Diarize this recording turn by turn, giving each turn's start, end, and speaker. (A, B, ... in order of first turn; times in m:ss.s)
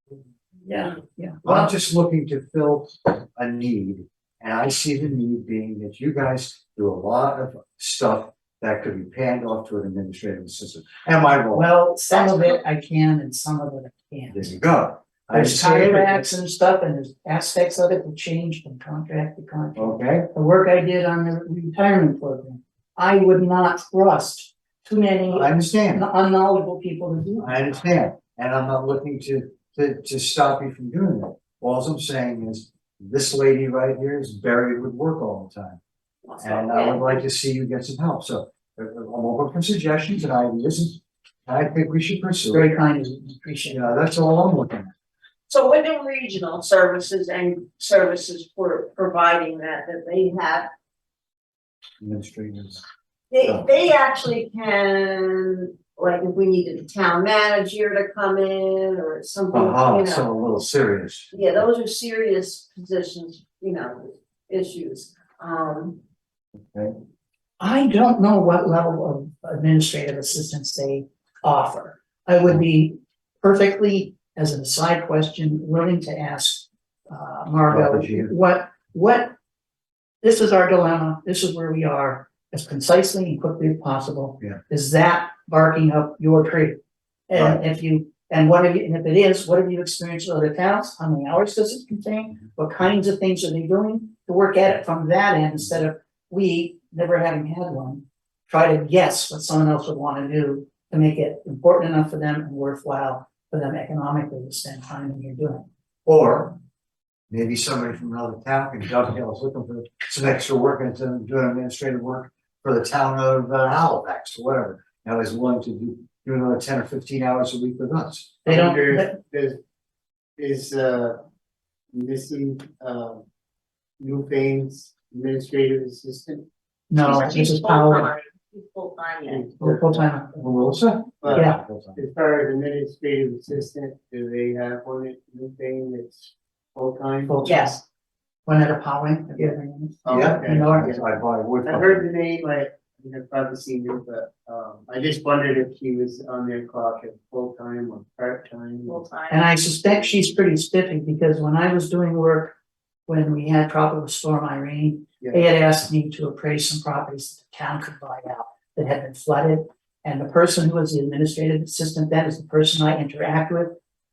0:00.6-0:01.8 A
0:01.4-0:11.6 B
0:11.5-0:14.5 A
0:12.2-0:12.5 C
0:14.3-0:16.2 B
0:15.3-0:27.5 A
0:19.8-0:20.3 B
0:25.3-0:26.0 B
0:27.4-0:35.8 B
0:36.2-0:37.2 C
0:36.4-0:42.7 B
0:42.5-0:43.8 A
0:43.7-0:44.9 B
0:45.5-0:50.7 C
0:52.0-0:52.8 B
0:53.3-1:00.3 C
0:53.4-0:53.7 B
0:59.5-1:01.3 B
1:01.3-1:06.0 C
1:07.6-1:19.3 A
1:17.7-1:18.3 B
1:20.2-1:26.8 A
1:27.3-1:45.6 A
1:27.3-1:27.6 B
1:46.0-1:46.6 B
1:47.3-1:58.4 B
1:58.4-1:59.2 A
1:58.4-1:59.6 D
2:00.4-2:01.2 D
2:01.9-2:03.2 D
2:04.0-2:06.5 D
2:06.9-2:08.1 A
2:07.0-2:09.5 C
2:09.2-2:10.0 D
2:09.6-2:10.5 A
2:10.4-2:12.0 B
2:11.2-2:17.7 D
2:17.2-2:17.8 A
2:18.4-2:20.9 A
2:20.0-2:21.0 D
2:20.1-2:22.0 B
2:21.6-2:29.0 D
2:28.8-2:29.5 C
2:29.3-2:32.5 A
2:33.1-2:43.7 A
2:35.2-2:35.4 D